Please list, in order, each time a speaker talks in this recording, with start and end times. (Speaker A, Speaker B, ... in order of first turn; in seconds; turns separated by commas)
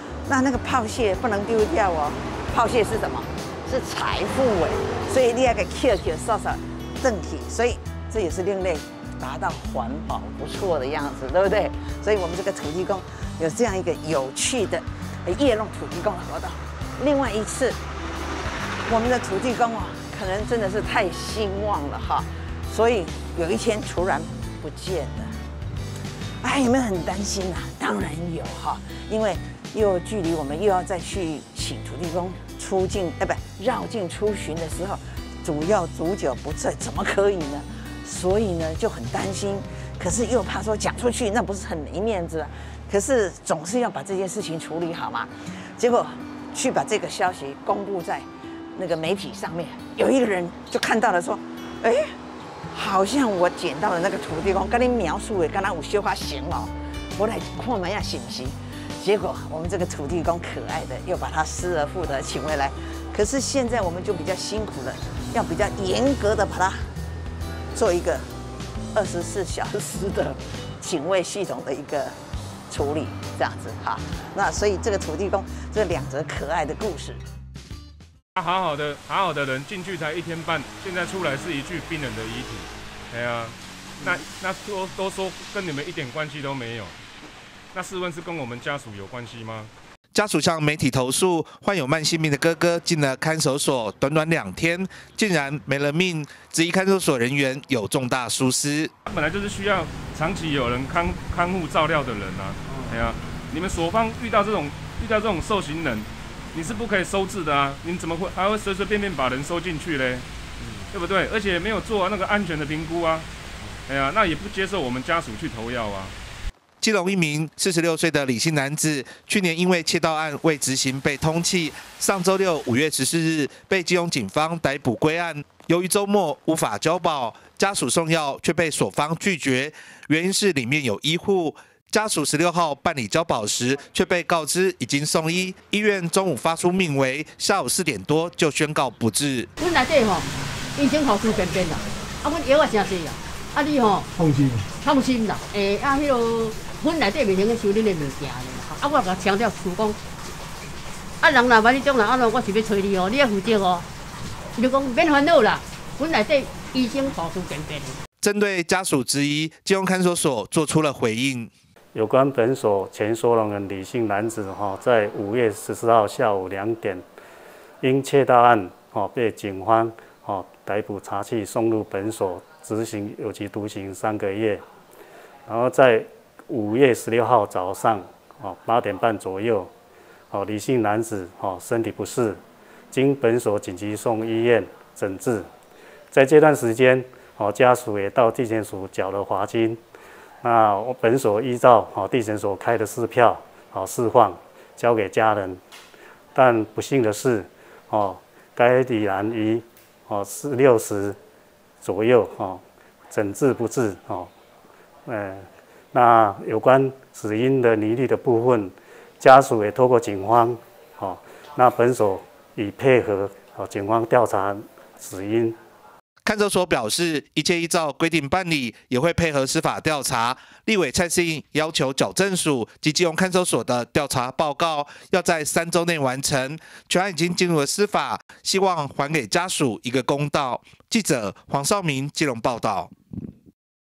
Speaker A: 0.3-17.8, Speaker A: 18.9-25.4, Speaker A: 26.4-48.2, Speaker A: 48.8-52.0, Speaker A: 52.7-66.8, Speaker A: 67.7-68.2, Speaker A: 69.0-72.1, Speaker A: 72.7-77.2, Speaker B: 78.4-87.0, Speaker B: 87.7-89.7, Speaker C: 90.1-99.0, Speaker B: 99.0-110.3, Speaker B: 110.9-113.3, Speaker B: 113.9-116.1, Speaker C: 116.8-139.5, Speaker D: 139.6-144.1, Speaker D: 144.8-150.0, Speaker D: 151.2-153.9, Speaker D: 154.6-158.0, Speaker C: 158.2-161.5, Speaker E: 161.9-167.0, Speaker E: 167.8-174.6, Speaker E: 175.5-179.7, Speaker E: 180.3-182.4, Speaker E: 182.9-185.5, Speaker E: 186.1-189.8, Speaker E: 190.4-195.6, Speaker E: 196.4-201.2, Speaker E: 201.8-202.6, Speaker E: 203.1-204.3, Speaker E: 205.1-215.6, Speaker C: 216.2-232.9